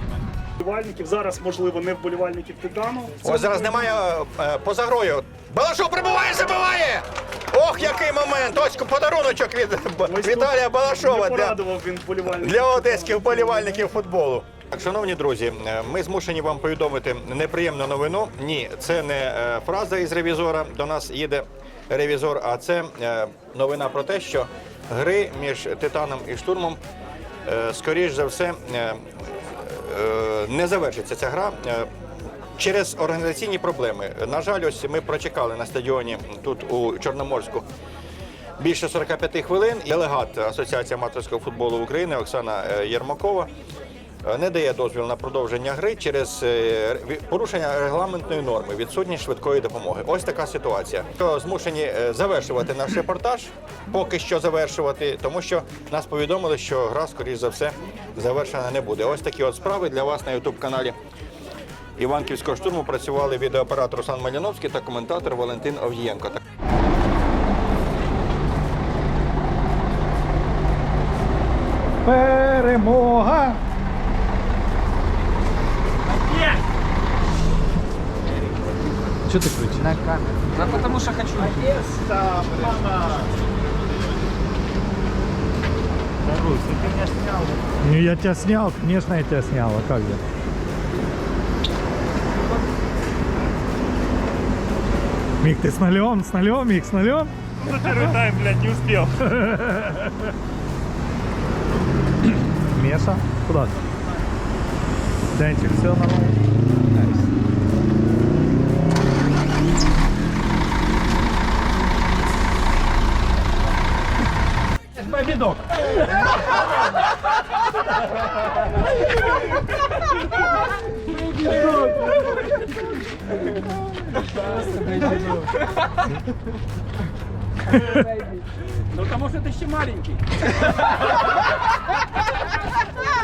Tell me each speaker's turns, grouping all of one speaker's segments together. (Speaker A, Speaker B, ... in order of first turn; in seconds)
Speaker A: 0.6-3.5, 10.1-13.8
Speaker B: 3.2-11.6, 12.2-26.8, 27.4-31.9, 32.6-37.7, 38.6-43.5, 44.2-61.0, 62.0-66.4, 81.9-83.2
Speaker C: 72.0-73.6, 79.2-80.0, 87.8-90.2, 95.4-100.3, 102.7-103.8, 105.3-106.4
Speaker D: 121.1-122.1, 124.2-125.4, 127.8-128.4, 129.0-130.2